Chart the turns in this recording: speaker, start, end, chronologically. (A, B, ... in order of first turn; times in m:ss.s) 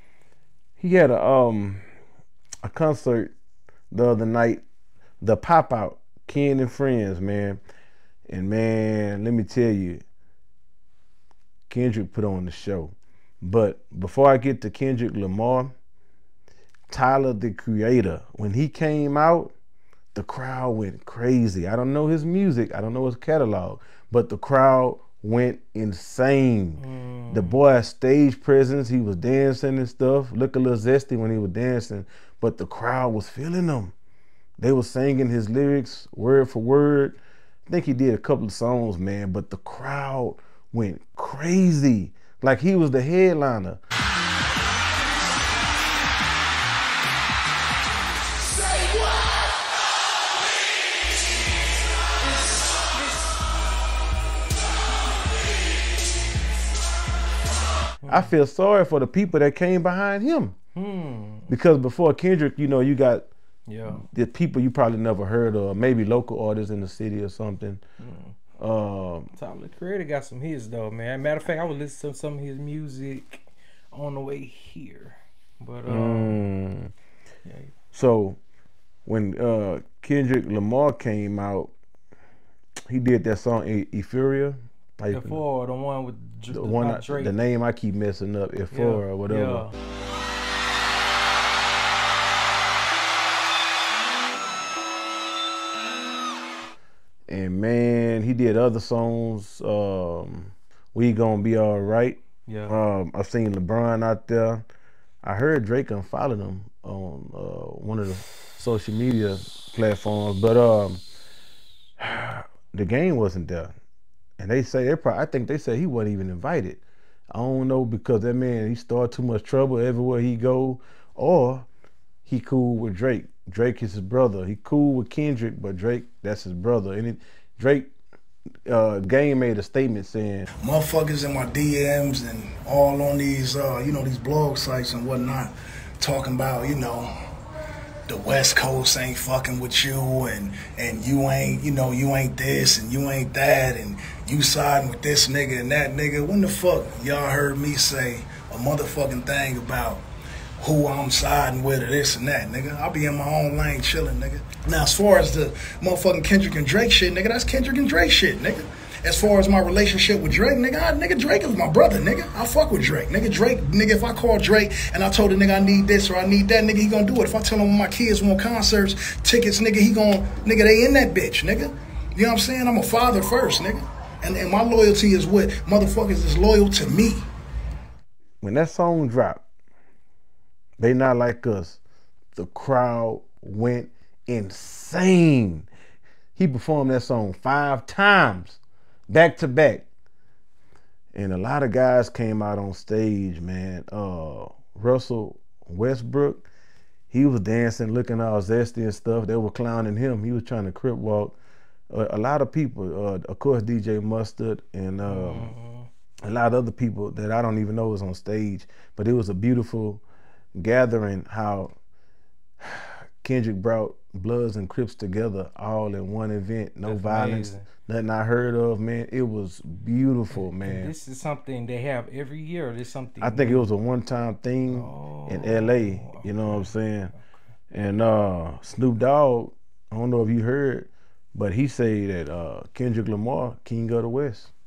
0:00.8-0:01.8 A
0:02.6-0:03.3 A
0:03.9-0:04.6 A
0:05.2-0:07.6 A
0:08.3-0:10.0 A
0:11.7-0:15.7 A
0:16.9-0:19.5 A
0:20.1-0:33.9 A
0:26.8-0:27.6 B
0:34.6-0:43.8 A
0:58.0-0:58.3 B
0:58.1-1:00.5 A
1:00.8-1:01.5 B
1:01.5-1:03.3 A
1:03.7-1:04.0 B
1:03.9-1:07.8 A
1:08.0-1:08.3 B
1:08.6-1:09.3 A
1:09.3-1:16.4 B
1:15.9-1:16.9 A
1:17.4-1:17.7 B
1:17.9-1:18.4 A
1:19.0-1:21.7 A
1:22.9-1:25.4 A
1:25.1-1:27.3 B
1:26.5-1:29.6 A
1:28.7-1:29.7 B
1:37.3-1:44.6 A
1:42.5-1:42.8 B
1:45.2-1:51.0 A
1:52.0-1:53.7 A
1:54.4-2:01.6 A
2:02.2-2:07.9 A
2:08.7-2:10.5 A
2:10.6-2:17.1 C
2:18.1-2:30.0 C
2:30.6-2:57.2 C
2:58.4-2:59.4 A
3:00.8-3:01.8 A
3:02.4-3:05.7 A
3:06.4-3:08.6 A
3:09.1-3:09.8 A
3:11.1-3:16.5 A
3:17.1-3:21.3 A
3:21.9-3:25.5 A
3:25.0-3:25.9 B
3:26.2-3:30.0 A
3:30.6-3:31.7 A
3:32.6-3:40.9 A
3:36.8-3:37.7 B
3:40.3-3:43.7 B
3:43.2-3:47.1 A
3:44.7-3:46.8 B
3:47.7-3:54.5 A